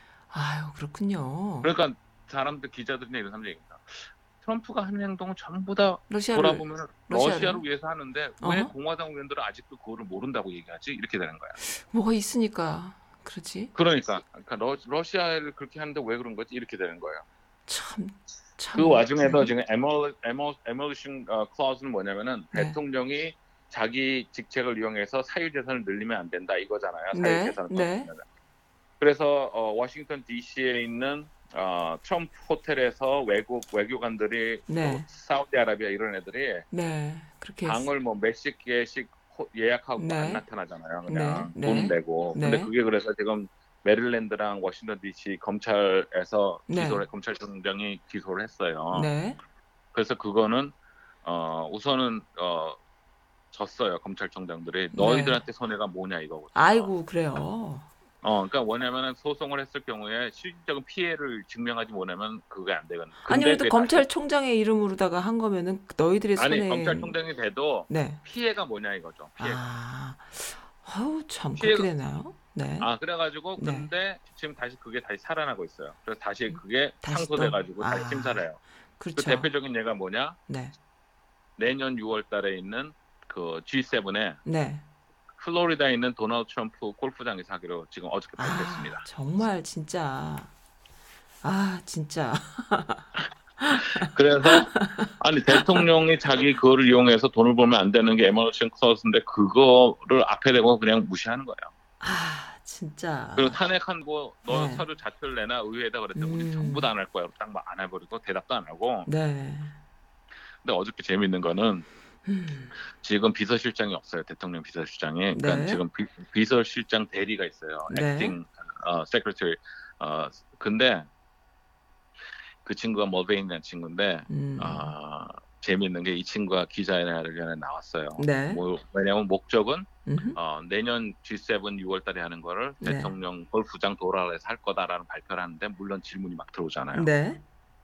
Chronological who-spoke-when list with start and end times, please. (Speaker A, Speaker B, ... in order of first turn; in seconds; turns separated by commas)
Speaker A: 0.3-1.7, Speaker B: 1.6-11.6, Speaker A: 6.1-7.6, Speaker A: 8.4-8.7, Speaker A: 11.6-13.7, Speaker B: 13.7-17.2, Speaker A: 17.7-19.5, Speaker B: 18.7-28.2, Speaker A: 22.5-22.8, Speaker A: 27.1-28.1, Speaker B: 29.0-36.7, Speaker A: 34.7-35.1, Speaker A: 36.7-37.9, Speaker B: 37.6-49.1, Speaker A: 40.0-40.4, Speaker A: 41.1-42.7, Speaker A: 46.7-47.0, Speaker A: 48.9-49.4, Speaker B: 49.9-52.8, Speaker B: 53.5-56.9, Speaker A: 54.9-55.4, Speaker A: 56.5-57.9, Speaker B: 58.2-64.0, Speaker A: 63.3-67.1, Speaker B: 66.4-69.6, Speaker A: 67.9-68.2, Speaker A: 69.4-72.9, Speaker B: 71.6-71.9, Speaker B: 72.8-78.6, Speaker A: 73.6-73.9, Speaker A: 76.5-79.5, Speaker B: 79.1-80.4, Speaker A: 80.5-80.7, Speaker B: 81.6-84.4, Speaker A: 84.4-84.8, Speaker B: 85.4-89.1, Speaker A: 88.4-90.5, Speaker A: 91.4-95.8, Speaker B: 93.8-101.7, Speaker A: 102.0-103.6, Speaker B: 103.4-109.1, Speaker A: 104.5-104.8, Speaker A: 106.1-106.9, Speaker A: 109.1-109.8, Speaker B: 110.6-111.9, Speaker A: 112.2-112.7, Speaker B: 112.9-121.1, Speaker A: 115.3-115.8, Speaker A: 117.9-118.4, Speaker B: 122.6-137.1, Speaker A: 124.3-124.9, Speaker A: 128.2-128.6, Speaker A: 130.1-130.4, Speaker A: 132.8-133.1, Speaker A: 136.9-137.4